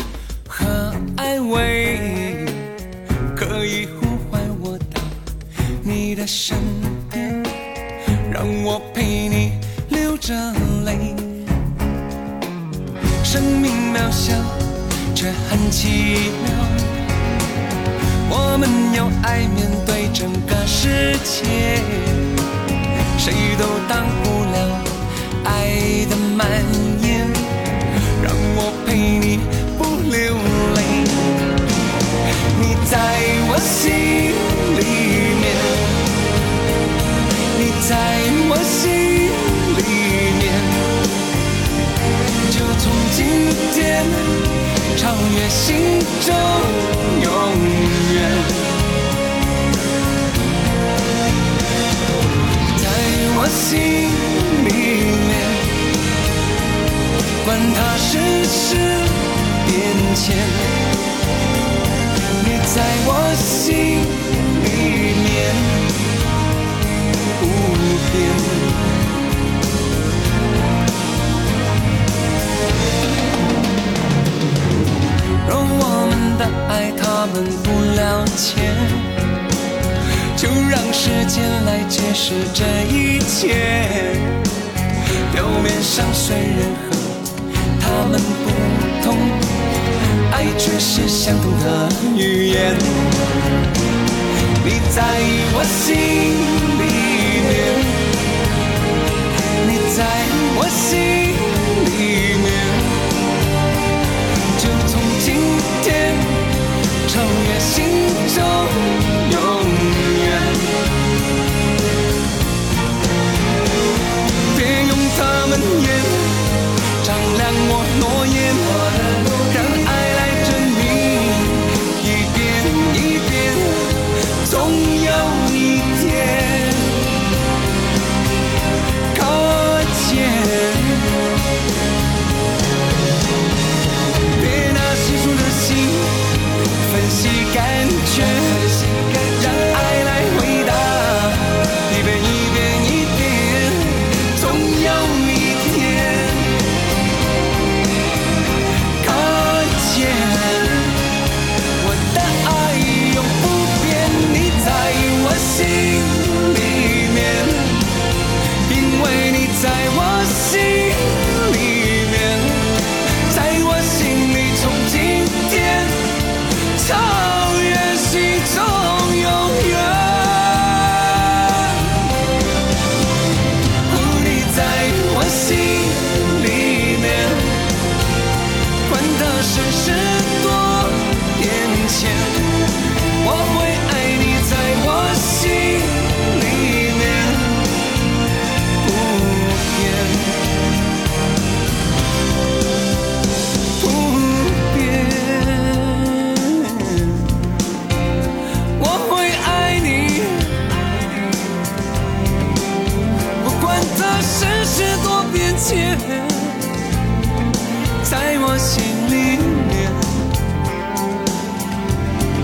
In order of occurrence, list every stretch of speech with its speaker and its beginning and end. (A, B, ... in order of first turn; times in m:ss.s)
0:00.4-0:02.7 A
0:03.3-0:05.2 A
0:05.8-0:07.5 A
0:08.2-0:11.5 A
0:13.2-0:17.0 A
0:18.2-0:22.4 A
0:23.1-0:27.6 A
0:28.2-0:31.6 A
0:32.2-0:36.0 A
0:37.5-0:41.0 A
0:42.4-0:48.8 A
0:52.6-0:55.9 A
0:57.4-1:00.9 A
1:02.4-1:06.0 A
1:07.4-1:09.0 A
1:15.4-1:19.2 A
1:20.3-1:24.4 A
1:25.3-1:29.7 A
1:30.3-1:33.2 A
1:34.6-1:38.1 A
1:39.5-1:43.1 A
1:44.5-1:51.0 A
1:54.4-2:07.1 A
2:09.1-2:11.2 A
2:14.2-2:26.7 A
2:29.0-2:31.1 A
2:31.8-2:52.0 A
2:53.9-2:57.7 A
2:58.8-3:07.9 A
3:08.8-3:10.6 A
3:13.8-3:17.4 A
3:18.8-3:20.8 A
3:23.4-3:26.8 A
3:28.0-3:30.1 A